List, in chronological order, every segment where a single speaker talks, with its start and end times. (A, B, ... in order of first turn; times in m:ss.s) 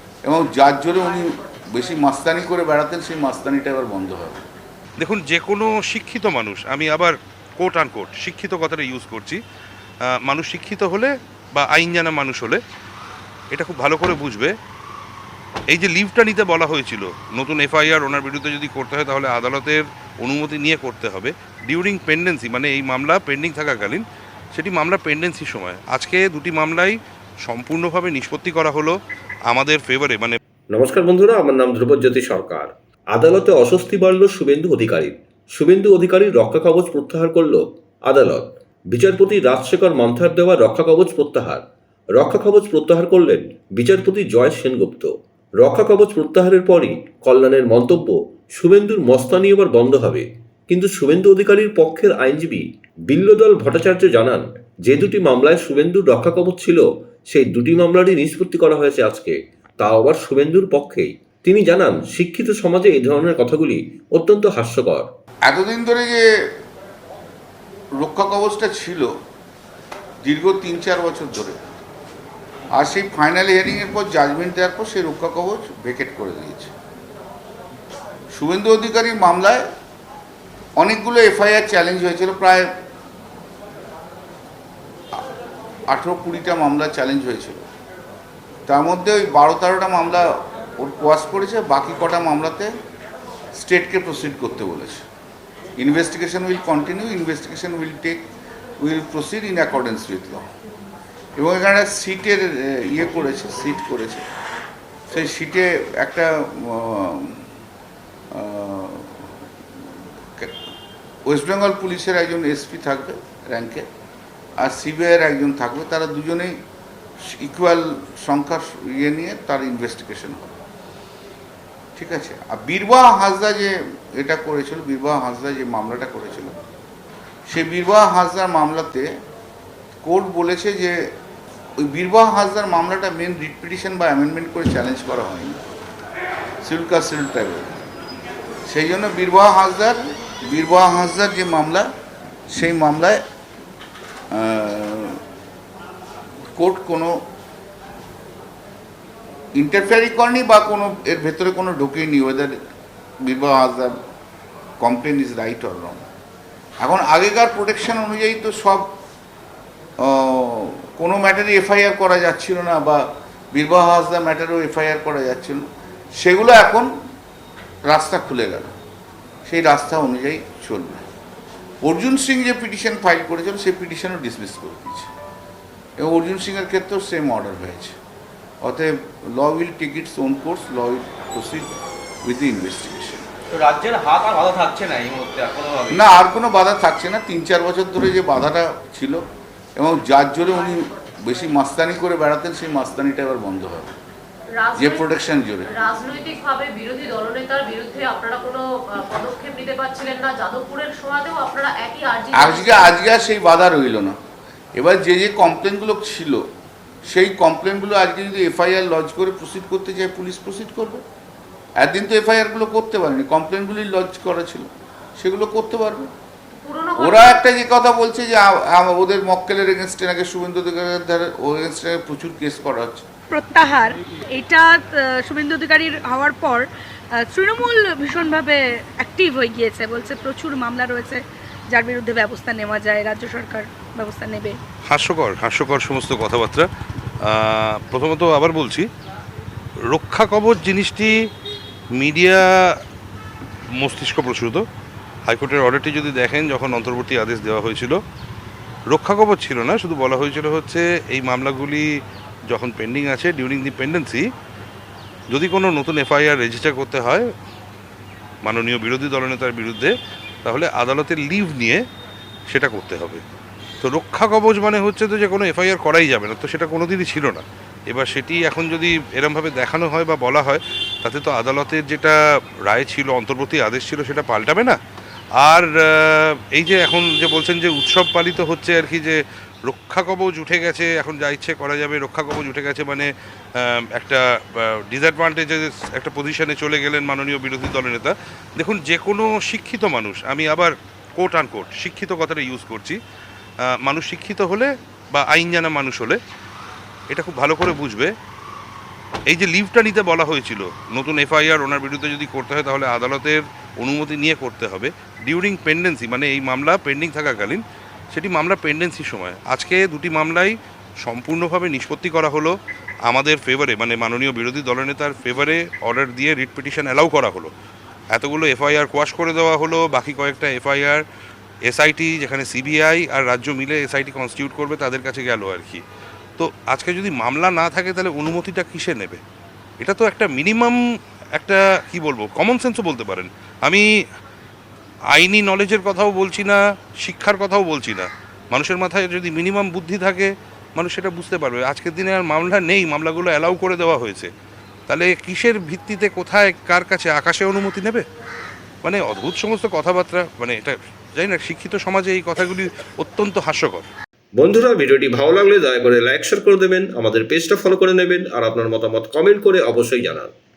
0:00.2-0:04.4 A
0:05.0-0:09.4 B
0:10.2-0:12.6 B
0:13.5-0:14.5 B
0:15.7-0:28.9 B
0:29.5-0:30.4 B
0:30.7-0:41.6 C
0:42.2-1:05.1 C
1:05.5-1:06.2 A
1:08.0-1:09.1 A
1:10.2-1:11.6 A
1:12.8-1:16.7 A
1:18.3-1:19.6 A
1:20.8-1:22.7 A
1:25.9-1:27.6 A
1:28.7-1:30.2 A
1:30.8-1:32.7 A
1:33.5-1:35.0 A
1:35.8-1:38.2 A
1:38.8-1:40.4 A
1:41.4-1:44.2 A
1:45.1-1:47.4 A
1:48.3-1:49.2 A
1:51.2-1:53.8 A
1:54.6-1:56.5 A
1:57.3-2:00.6 A
2:02.0-2:06.6 A
2:07.5-2:09.1 A
2:10.0-2:11.0 A
2:11.8-2:15.6 A
2:16.6-2:17.8 A
2:18.7-2:21.9 A
2:22.5-2:23.2 A
2:24.3-2:25.2 A
2:26.6-2:27.1 A
2:29.6-2:32.5 A
2:33.2-2:33.9 A
2:34.8-2:36.0 A
2:36.8-2:38.9 A
2:40.0-2:45.6 A
2:46.2-2:46.9 A
2:47.9-2:48.7 A
2:49.4-2:51.1 A
2:51.8-2:55.1 A
2:56.0-2:58.0 A
2:58.6-3:03.2 A
3:03.5-3:06.0 D
3:05.9-3:09.2 A
3:09.8-3:13.9 A
3:10.5-3:10.8 E
3:14.6-3:15.1 E
3:14.8-3:15.7 A
3:15.7-3:22.9 E
3:22.3-3:24.2 A
3:24.8-3:26.4 A
3:27.1-3:31.0 A
3:31.8-3:36.1 A
3:36.6-3:37.2 E
3:37.0-3:43.0 A
3:43.3-3:54.6 F
3:54.9-3:56.7 B
3:57.2-3:58.9 B
3:59.9-4:01.1 B
4:01.9-4:02.4 B
4:03.8-4:04.6 B
4:05.3-4:08.0 B
4:08.9-4:11.8 B
4:12.5-4:14.2 B
4:15.3-4:17.2 B
4:18.4-4:19.9 B
4:20.4-4:21.8 B
4:22.5-4:23.2 B
4:23.8-4:32.2 B
4:32.7-4:34.8 B
4:35.4-4:53.0 B
4:53.8-4:56.2 B
4:57.1-4:58.1 B
4:59.3-5:12.6 B
5:13.1-5:17.5 B
5:18.1-5:21.0 B
5:21.7-5:25.8 B
5:26.4-5:29.2 B
5:29.8-5:30.8 B
5:31.4-5:33.8 B
5:35.2-5:44.3 B
5:44.9-5:48.0 B
5:48.8-5:53.9 B
5:54.4-6:00.3 C